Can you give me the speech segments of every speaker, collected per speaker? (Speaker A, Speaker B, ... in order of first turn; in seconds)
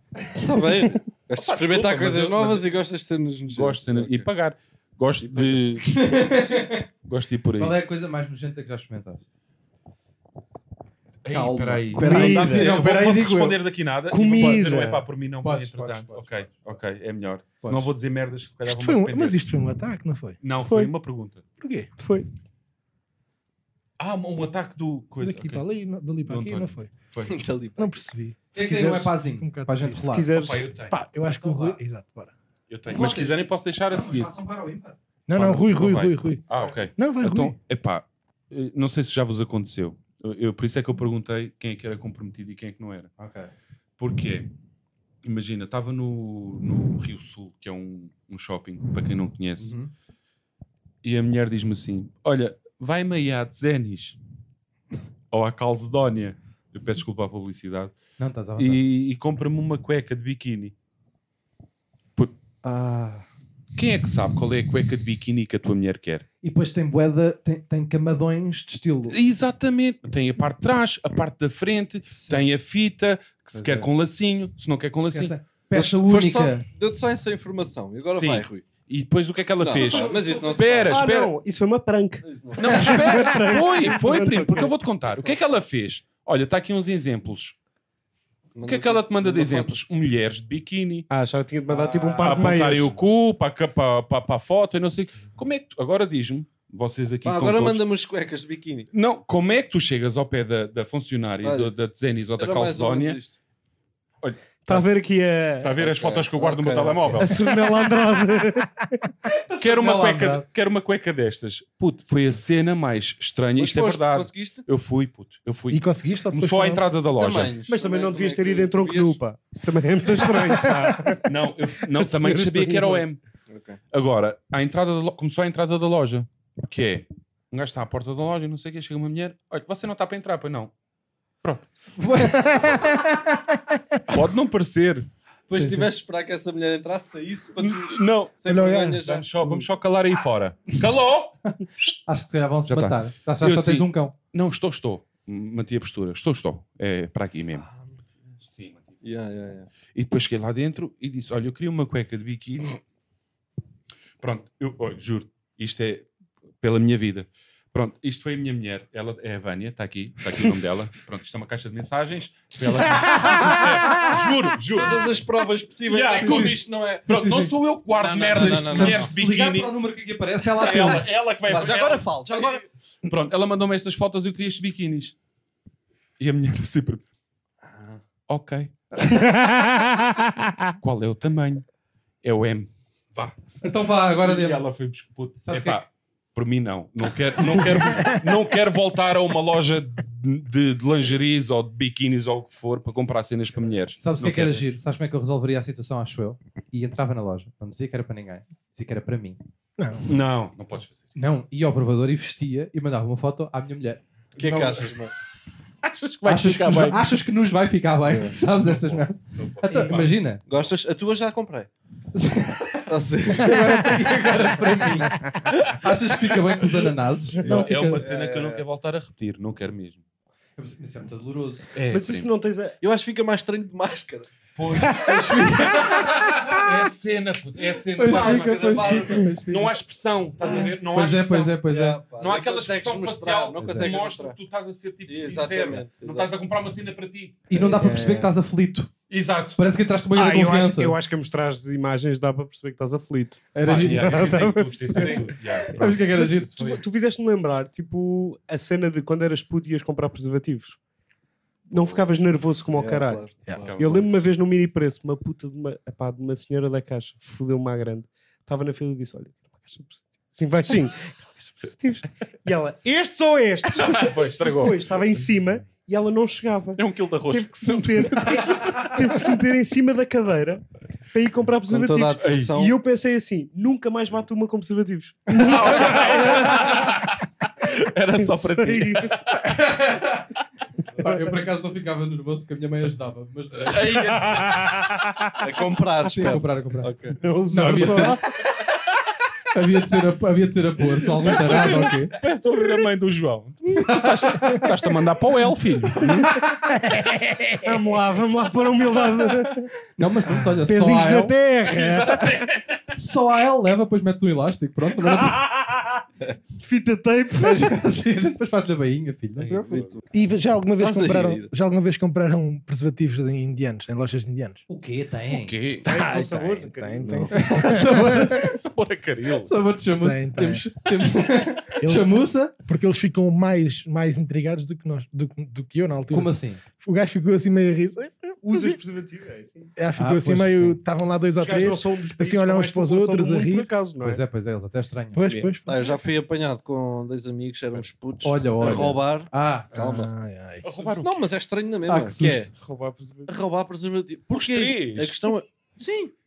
Speaker A: 0.3-4.3, 5.2-5.6, 27.2-28.1, 75.7-78.7, 79.6-81.0, 82.2-83.3, 85.0-85.4, 88.5-89.8, 97.2-98.9, 101.4-101.7, 102.3-103.3, 105.8-107.3, 113.5-114.6, 117.1-119.2, 123.5-123.8, 135.5-139.7, 147.5-148.0, 149.0-149.7, 164.7-167.0, 167.9-169.1, 171.4-172.6, 177.6-178.0, 204.3-205.1, 208.1-208.3, 210.5-211.7, 212.9-214.0, 217.4-218.6, 222.8-224.3, 228.0-229.3, 231.6-234.4, 235.1-236.3, 237.5-238.0, 251.8-252.0, 252.7-254.2, 271.7-272.8, 285.4-287.1, 309.7-310.0, 310.8-311.5, 317.0-317.3, 335.6-340.1, 341.0-342.5, 343.3-346.1
Speaker B: 1.3-2.7, 3.5-6.4, 7.0-7.8, 11.2-19.4, 20.4-21.4, 24.0-25.6, 26.2-27.4, 30.3-31.8, 32.7-34.3, 35.3-43.1, 44.0-44.5, 45.2-49.7, 51.0-54.2, 55.3-57.9, 58.6-60.7, 63.7-66.2, 69.1-75.3, 78.1-81.3, 82.6-87.5, 88.6-91.1, 92.2-97.8, 98.9-103.2, 104.2-104.9, 105.6-107.4, 109.6-117.5, 121.2-123.2, 123.9-130.7, 134.1-135.1, 137.6-138.3, 139.0-141.4, 142.7-147.7, 148.4-148.9, 149.9-152.8, 154.2-156.1, 156.6-165.2, 165.8-169.7, 170.5-175.1, 176.2-177.0, 178.3-178.7, 180.8-181.6, 182.2-183.4, 184.1-194.6, 200.0-201.0, 204.3-205.0, 205.8-207.2, 208.6-210.2, 217.4-220.0, 221.7-222.3, 224.6-237.4, 239.1-239.6, 243.6-246.8, 253.6-254.0, 263.7-265.0, 266.8-269.1, 272.2-272.5, 275.3-279.4, 283.6-285.3, 291.2-296.3, 301.7-302.8, 309.4-310.0, 315.3-316.0, 317.8-319.5, 340.6-341.2, 344.3-345.3
Speaker C: 5.8-6.8, 7.6-9.3, 11.3-13.6, 14.3-14.7, 15.4-16.5, 17.6-17.9, 28.5-30.3, 32.9-35.0, 43.2-43.5, 49.6-49.9, 58.2-58.8, 62.6-63.2, 66.4-69.2, 72.1-72.6, 73.5-73.9, 75.0-76.7, 91.8-92.5, 109.3-110.4, 132.0-133.0, 135.5-135.9, 142.1-144.1, 163.2-163.7, 166.2-167.6, 168.3-171.1, 183.6-184.7, 185.4-185.8, 194.0-199.4, 201.1-204.0, 206.2-210.4, 212.1-218.0, 220.6-221.7, 225.0-226.6, 227.9-229.7, 230.5-232.0, 233.6-233.9, 237.5-238.9, 239.6-241.0, 243.5-244.3, 244.9-246.6, 279.4-280.3, 280.9-284.3, 286.0-286.9, 287.5-288.2, 289.5-292.1, 293.9-294.7, 296.0-296.8, 300.0-301.4, 302.9-305.4, 307.3-309.8, 314.7-315.5, 317.3-318.5, 319.4-322.5, 326.1-326.6, 329.9-330.8, 334.0-335.2, 338.2-340.0, 341.9-342.5
Speaker D: 12.0-12.8, 14.1-15.0, 20.6-20.9, 22.0-22.3, 28.6-29.1, 29.9-30.6, 80.9-84.7, 91.1-92.9, 104.6-105.8, 107.2-108.7, 117.7-121.2, 121.9-123.0, 179.0-180.7, 221.9-222.8, 237.7-238.3, 240.1-250.8, 251.7-276.4, 278.1-279.1, 287.2-288.2, 297.5-299.7, 300.6-302.4, 305.3-305.7, 306.6-307.8, 315.8-317.5, 328.4-329.7, 331.4-334.2, 335.2-335.5, 342.5-343.3
Speaker E: 18.6-20.4, 21.6-21.9, 25.2-26.9, 27.8-30.0, 30.9-32.3, 35.3-36.4, 36.9-37.5, 115.7-116.9, 120.5-121.0, 132.6-132.9, 138.4-139.0, 199.8-200.0, 253.4-253.7, 310.1-314.6, 315.9-318.4, 320.0-320.6, 321.8-328.8, 329.8-333.7, 335.1-336.0, 339.7-341.0